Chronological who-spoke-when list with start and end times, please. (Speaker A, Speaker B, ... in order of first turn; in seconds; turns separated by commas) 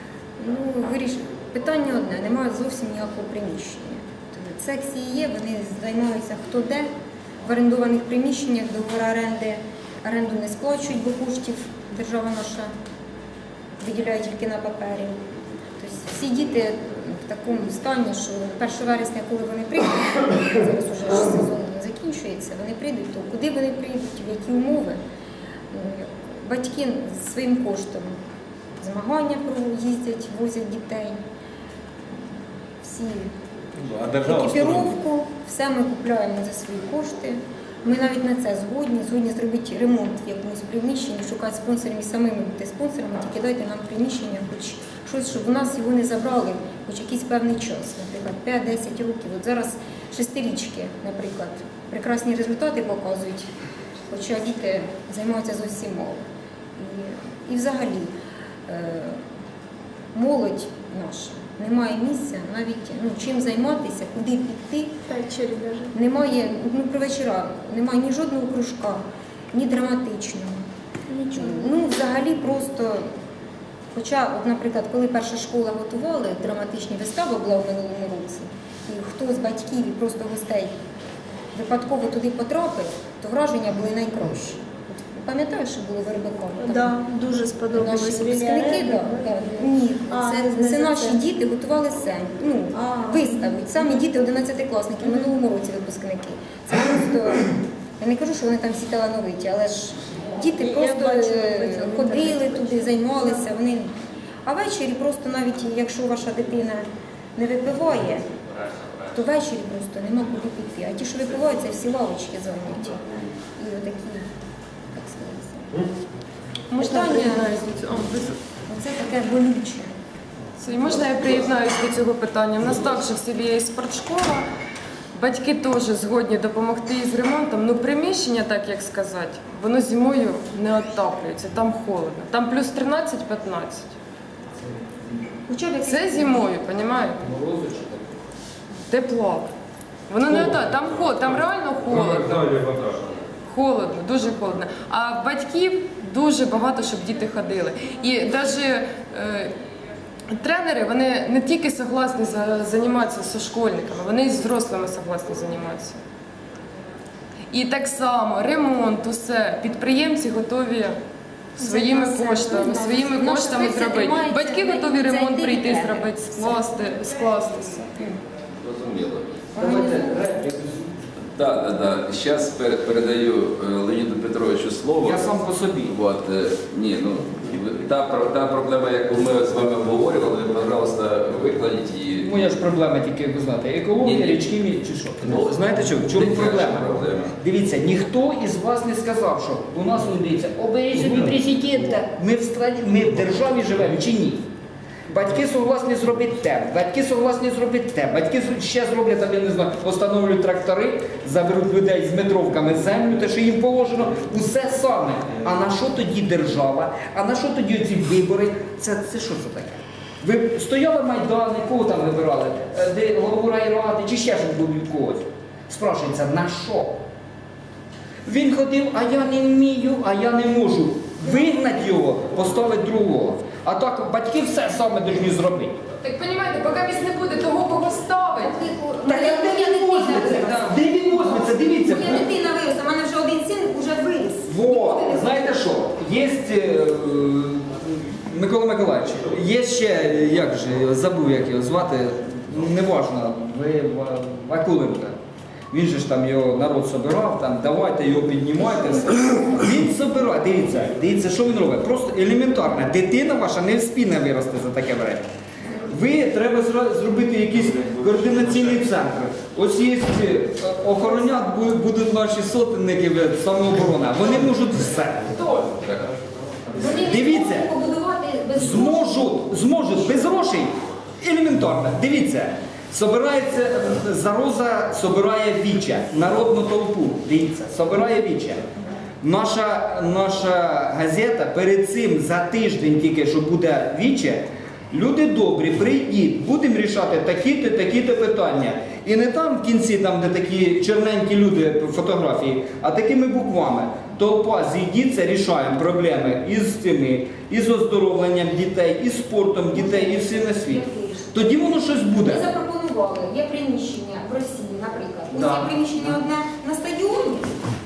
Speaker A: 0.4-6.9, Speaker A: 7.5-12.7, Speaker A: 13.8-15.2, Speaker A: 15.8-25.0, Speaker A: 25.7-28.1, Speaker A: 28.8-31.2, Speaker A: 32.8-33.3, Speaker B: 34.0-34.6, Speaker A: 34.2-53.5, Speaker A: 54.1-56.2, Speaker A: 56.8-58.1, Speaker A: 58.7-59.2, Speaker A: 60.1-65.0, Speaker C: 65.1-65.9, Speaker A: 65.9-70.7, Speaker C: 71.1-71.8, Speaker A: 71.3-73.1, Speaker A: 73.9-80.7, Speaker A: 81.5-87.0, Speaker C: 86.6-89.5, Speaker A: 87.7-103.9, Speaker C: 90.1-91.2, Speaker C: 92.8-93.8, Speaker C: 100.6-103.2, Speaker A: 104.5-106.8, Speaker A: 107.4-108.2, Speaker A: 109.1-113.0, Speaker A: 113.6-114.2, Speaker A: 114.9-115.9, Speaker D: 116.7-118.4, Speaker A: 116.8-117.6, Speaker A: 118.7-119.9, Speaker D: 120.6-124.4, Speaker D: 125.1-133.9, Speaker A: 135.5-136.5, Speaker D: 135.8-137.2, Speaker E: 137.2-138.1, Speaker D: 138.9-139.5, Speaker D: 140.1-142.5, Speaker E: 140.3-140.6, Speaker E: 141.9-143.1, Speaker D: 143.5-149.5, Speaker D: 150.3-156.0, Speaker D: 157.5-161.0, Speaker D: 161.6-167.9, Speaker A: 161.6-166.7, Speaker B: 168.6-169.3, Speaker A: 169.6-170.3, Speaker E: 169.6-170.9, Speaker B: 171.4-175.3, Speaker E: 175.0-175.9, Speaker B: 175.9-182.3, Speaker E: 182.2-194.5, Speaker B: 184.0-184.4, Speaker B: 185.2-187.3, Speaker E: 195.1-217.0, Speaker E: 218.2-225.8, Speaker D: 226.0-228.6, Speaker A: 228.4-235.5, Speaker E: 229.1-232.3, Speaker E: 234.5-245.2, Speaker E: 245.7-265.4, Speaker B: 265.5-266.1, Speaker A: 266.8-269.3, Speaker E: 267.0-267.7, Speaker E: 268.6-278.6, Speaker E: 279.2-302.5, Speaker A: 299.8-301.5, Speaker A: 302.2-307.5, Speaker E: 305.3-305.8